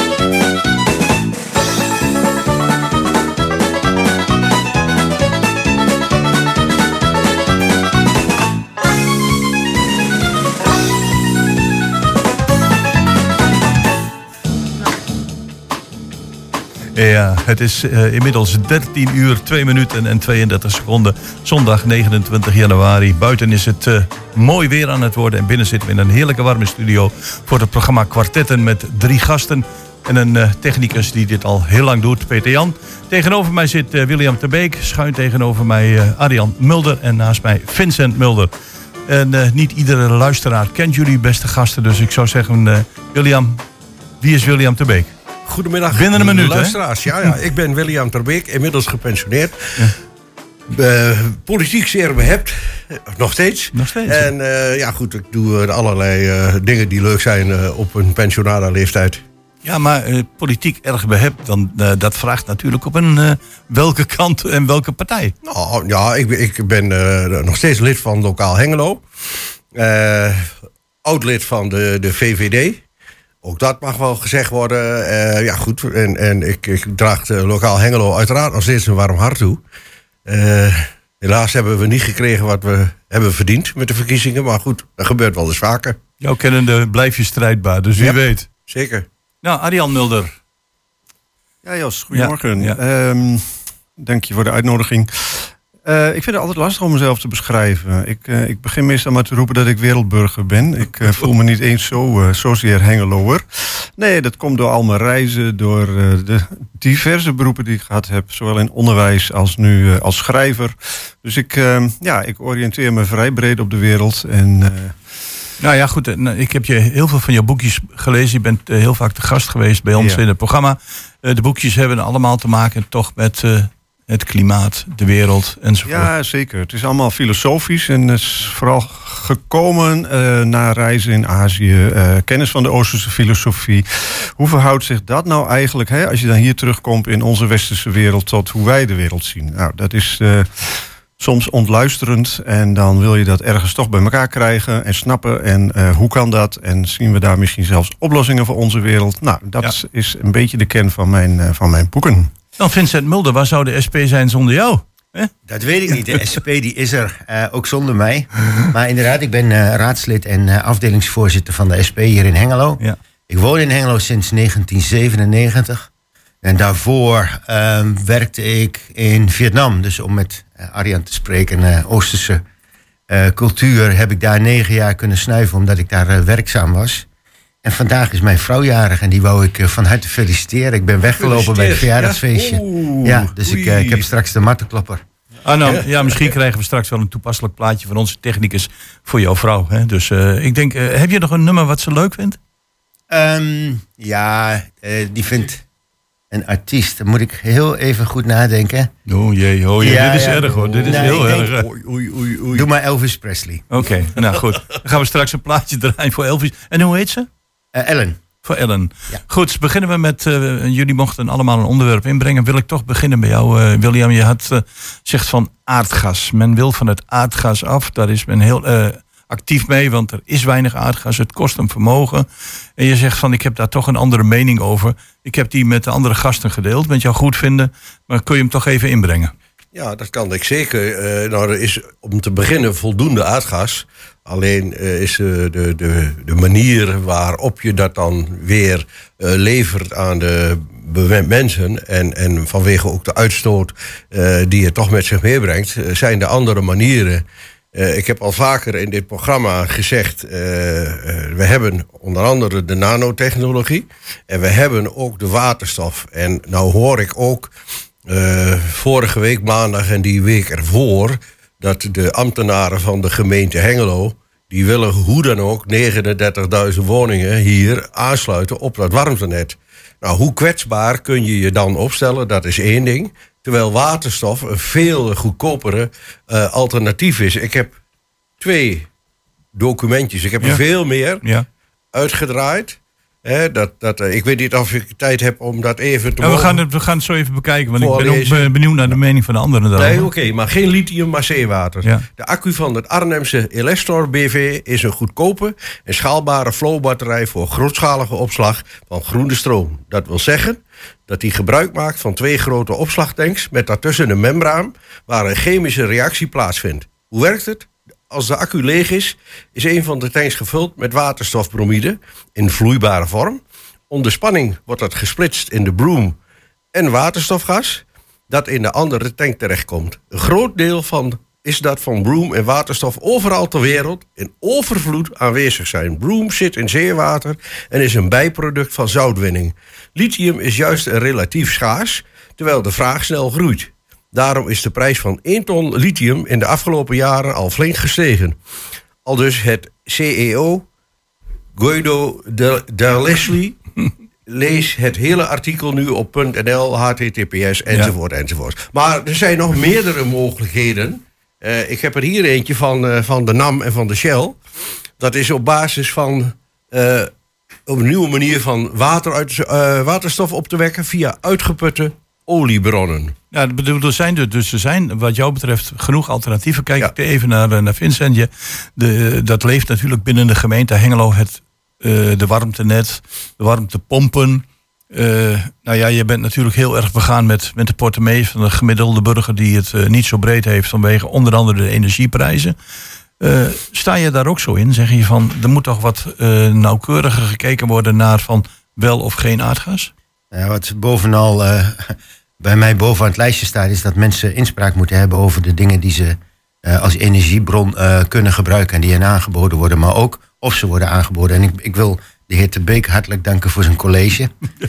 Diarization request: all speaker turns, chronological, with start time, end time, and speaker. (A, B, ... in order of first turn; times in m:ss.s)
0:17.0-0:38.5 A
0:39.1-0:43.6 A
0:44.2-0:45.1 A
0:45.5-0:49.9 B
0:45.9-0:47.4 A
0:50.7-0:59.2 B
0:53.7-0:54.3 A
0:59.6-1:05.3 A
1:05.4-1:09.0 B
1:09.7-1:10.5 B
1:11.0-1:12.8 B
1:13.4-1:19.6 B
1:20.3-1:26.0 B
1:26.2-1:28.5 A
1:28.0-1:29.1 B
1:29.4-1:30.4 A
1:31.6-1:55.0 C
1:32.1-1:32.8 A
1:55.6-2:06.1 A
2:05.8-2:32.3 C
2:32.6-2:35.3 A
2:35.5-2:45.9 D
2:46.4-2:52.4 D
2:53.1-2:57.0 D
2:57.6-3:05.0 D
3:01.0-3:04.1 B
3:05.4-3:12.4 A
3:05.7-3:06.3 B
3:13.1-3:15.6 D
3:16.3-3:18.9 D
3:19.1-3:21.7 A
3:19.8-3:21.5 D
3:20.6-3:22.7 B
3:22.5-3:23.7 D
3:23.7-3:27.3 A
3:27.8-3:28.2 D
3:28.4-3:49.3 A
3:49.7-4:07.2 B
4:07.8-4:17.5 B
4:18.1-4:37.8 B
4:38.4-4:38.9 B
4:39.6-4:41.2 B
4:41.2-4:41.5 A
4:41.9-4:46.6 B
4:46.2-4:50.1 A
4:47.8-4:49.0 B
4:49.8-5:16.2 B
5:16.7-5:38.4 B
5:39.0-5:40.7 B
5:41.6-5:43.6 B
5:44.3-5:54.4 B
5:55.0-5:57.1 B
5:57.7-6:03.2 B
6:03.3-6:22.6 A
6:23.2-6:29.9 A
6:30.3-6:44.3 D